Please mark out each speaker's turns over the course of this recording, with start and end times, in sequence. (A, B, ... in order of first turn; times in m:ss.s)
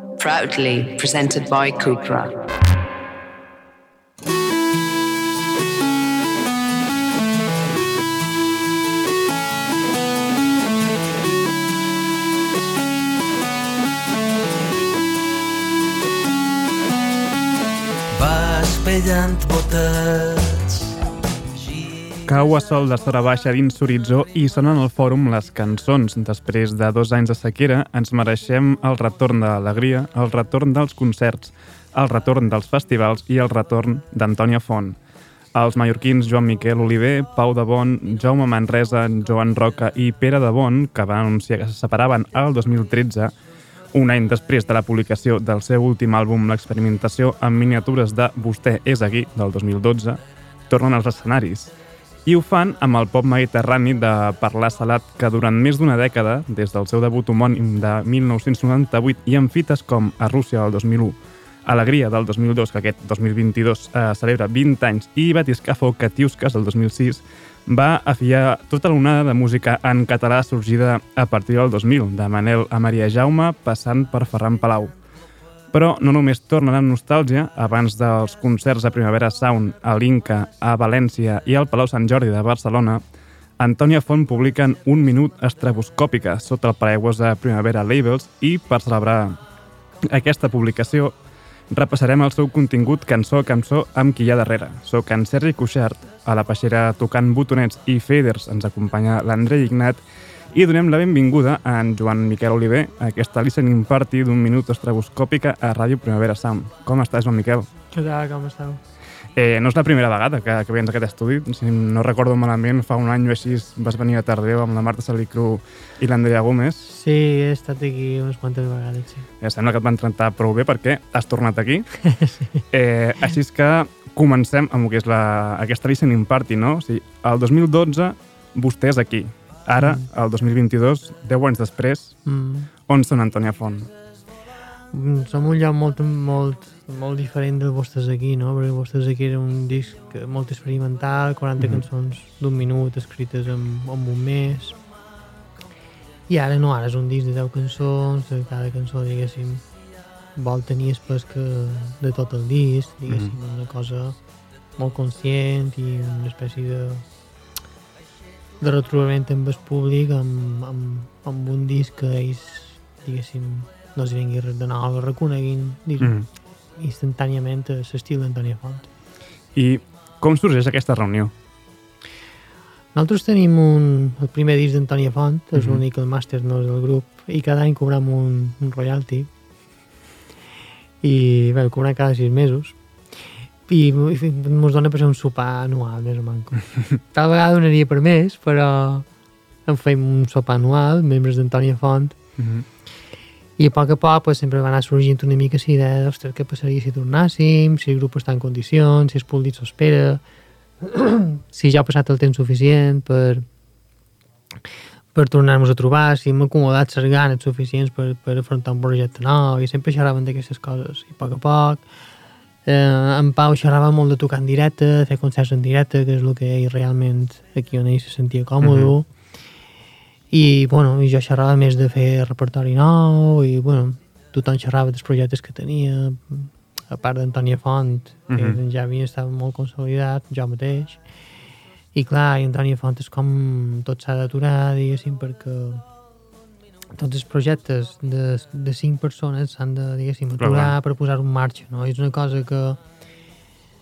0:00.2-0:02.3 A
0:18.1-0:21.0 B
0:21.6-0:22.3 B
0:22.3-0:35.0 C
0:35.5-0:43.3 C
0:43.9-0:51.7 C
0:52.3-1:14.9 C
1:15.7-1:23.0 C
1:23.6-1:29.4 C
1:30.0-1:31.1 C
1:31.7-1:40.0 C
1:40.5-1:47.7 C
1:47.9-1:48.8 D
1:49.4-1:56.9 C
1:56.9-1:59.3 D
1:59.4-2:01.9 C
2:02.1-2:02.6 D
2:02.7-2:12.2 C
2:09.8-2:10.1 D
2:12.3-2:12.7 D
2:12.9-2:13.9 C
2:14.9-2:24.8 D
2:21.6-2:21.8 C
2:26.3-2:29.6 D
2:30.4-2:34.2 D
2:34.8-2:37.0 D
2:38.6-2:46.1 D
2:46.0-2:46.3 C
2:46.8-2:48.9 D
2:49.6-2:51.3 C
2:53.0-2:59.3 D
2:55.6-2:55.8 C
3:01.0-3:02.8 D
3:03.7-3:09.1 D
3:09.7-3:12.2 D
3:12.4-3:12.6 C
3:13.6-3:20.2 D
3:20.8-3:23.4 D
3:25.1-3:31.8 D
3:32.7-3:39.1 D
3:38.6-3:38.9 C
3:40.3-3:51.0 D
3:48.3-3:48.6 C
3:51.9-3:55.8 D
3:57.0-4:02.8 D
4:00.4-4:00.8 C